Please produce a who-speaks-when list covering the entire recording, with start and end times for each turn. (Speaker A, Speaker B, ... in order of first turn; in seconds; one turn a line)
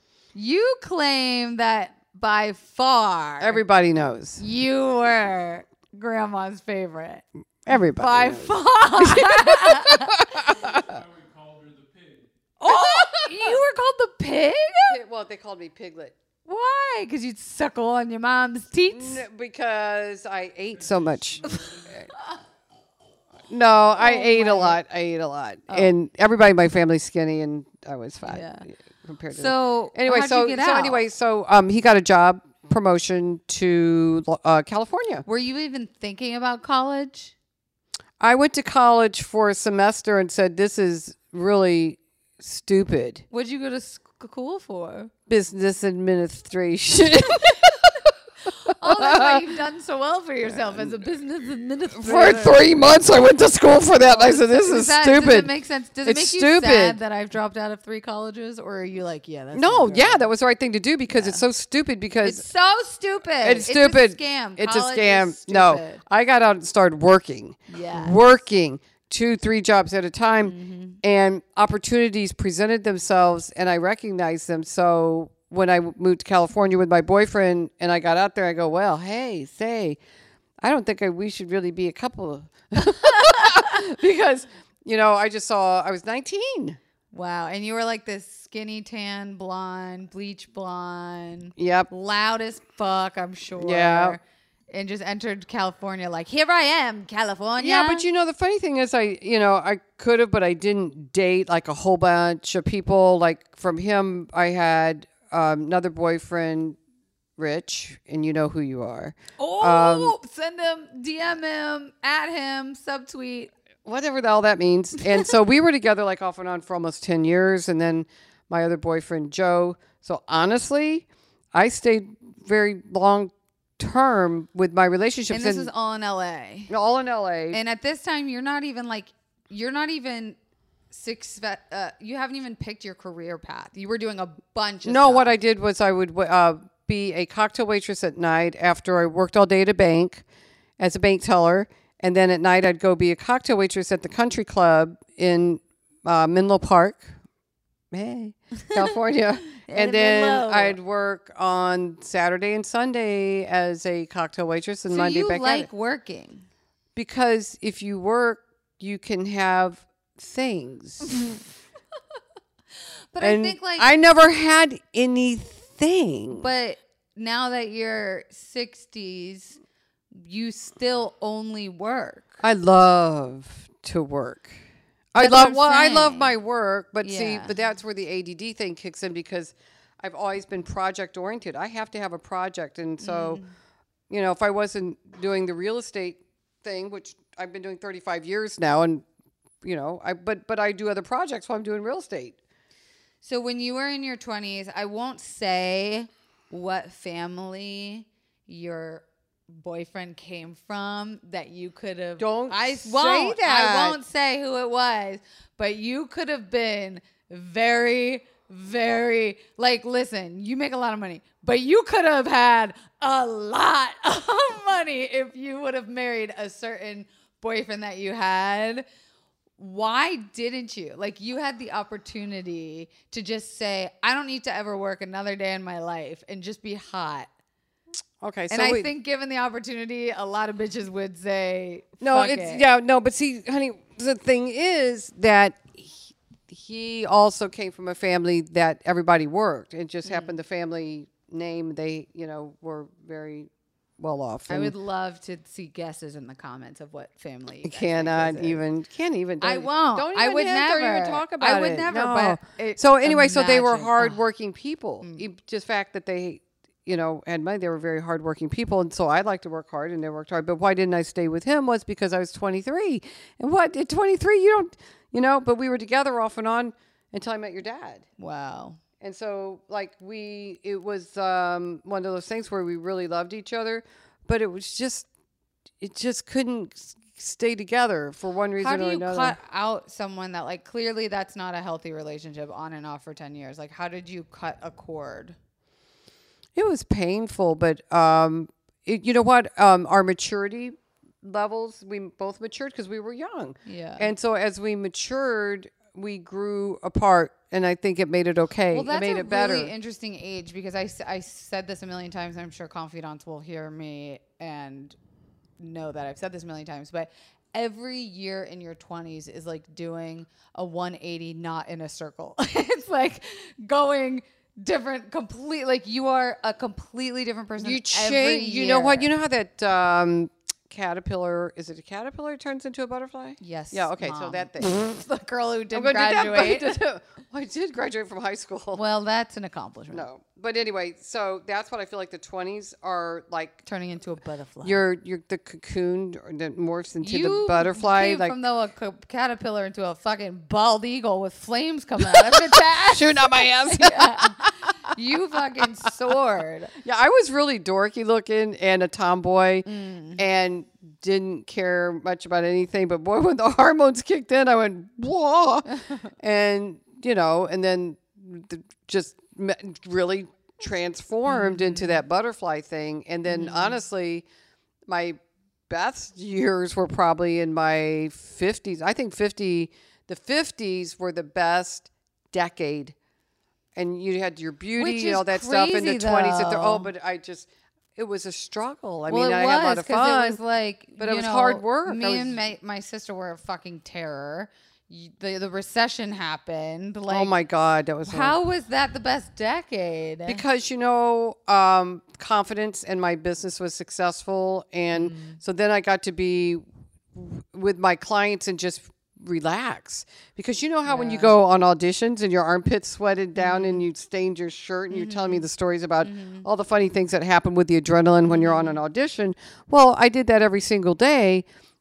Speaker A: 0.3-3.6
Speaker B: 3.4-4.4
Speaker A: 4.4-10.2
Speaker B: 7.7-11.0
Speaker C: 10.3-12.3
Speaker A: 12.6-15.0
Speaker B: 12.6-13.6
Speaker B: 14.9-16.2
Speaker A: 16.4-19.2
Speaker B: 18.9-21.4
Speaker C: 20.7-22.3
Speaker B: 23.5-35.2
Speaker A: 24.0-24.8
Speaker A: 28.2-28.7
Speaker A: 29.3-31.0
Speaker A: 35.3-37.4
Speaker B: 38.2-43.2
Speaker A: 43.3-45.1
Speaker B: 45.3-48.1
Speaker A: 48.5-52.6
Speaker B: 48.7-49.5
Speaker B: 50.5-51.0
Speaker B: 52.0-55.5
Speaker A: 54.0-60.3
Speaker B: 56.0-57.0
Speaker B: 59.5-62.5
Speaker A: 61.1-61.4
Speaker A: 62.2-66.0
Speaker B: 63.4-80.0
Speaker A: 67.7-68.2
Speaker A: 70.5-71.0
Speaker B: 80.6-86.8
Speaker A: 83.0-83.8
Speaker A: 87.1-98.0
Speaker B: 91.6-91.9
Speaker B: 93.6-94.2
Speaker B: 97.6-106.8
Speaker B: 107.4-110.2
Speaker A: 109.4-113.5
Speaker B: 113.8-125.7
Speaker A: 125.3-126.7
Speaker B: 126.7-127.6
Speaker A: 127.5-130.4
Speaker A: 130.9-135.3
Speaker B: 134.8-140.2
Speaker B: 140.8-147.1
Speaker B: 147.9-155.7
Speaker A: 149.5-150.8
Speaker A: 154.9-156.4
Speaker B: 156.9-161.2
Speaker A: 163.1-163.9
Speaker B: 163.2-166.5
Speaker A: 166.3-169.6
Speaker A: 170.2-172.4
Speaker B: 172.4-174.6
Speaker B: 175.1-183.4
Speaker A: 175.2-176.3
Speaker A: 177.0-177.5
Speaker A: 183.0-183.5
Speaker B: 184.1-189.1
Speaker B: 189.6-192.4
Speaker A: 193.2-218.8
Speaker B: 202.2-204.0
Speaker A: 219.6-227.3
Speaker B: 228.2-228.9
Speaker A: 228.5-232.7
Speaker B: 232.0-244.7
Speaker A: 240.1-240.4
Speaker A: 244.5-248.6
Speaker B: 247.6-268.1
Speaker A: 249.4-254.2
Speaker A: 268.2-268.8
Speaker B: 269.0-275.1
Speaker B: 275.8-279.4
Speaker A: 278.6-285.4
Speaker B: 286.6-299.7
Speaker A: 293.7-294.1
Speaker A: 298.7-305.0
Speaker A: 305.6-319.1
Speaker B: 317.6-324.7
Speaker A: 323.4-326.8
Speaker B: 325.7-328.8
Speaker A: 328.7-330.1
Speaker B: 329.9-333.6
Speaker A: 333.6-334.8
Speaker B: 334.6-338.3
Speaker A: 337.0-346.7
Speaker B: 342.1-344.5
Speaker B: 346.8-349.7
Speaker A: 349.7-350.2
Speaker B: 350.2-364.3
Speaker A: 361.3-362.0
Speaker A: 363.3-363.8
Speaker B: 364.9-372.9
Speaker B: 373.8-380.4
Speaker A: 374.8-376.9
Speaker A: 379.1-387.3
Speaker B: 381.0-382.4
Speaker B: 387.1-388.4
Speaker A: 388.1-390.4
Speaker B: 390.3-396.6
Speaker A: 394.9-395.4
Speaker B: 397.1-411.5
Speaker A: 400.9-401.3
Speaker A: 403.4-403.9
Speaker A: 404.9-405.5
Speaker A: 406.0-406.5
Speaker A: 408.2-408.8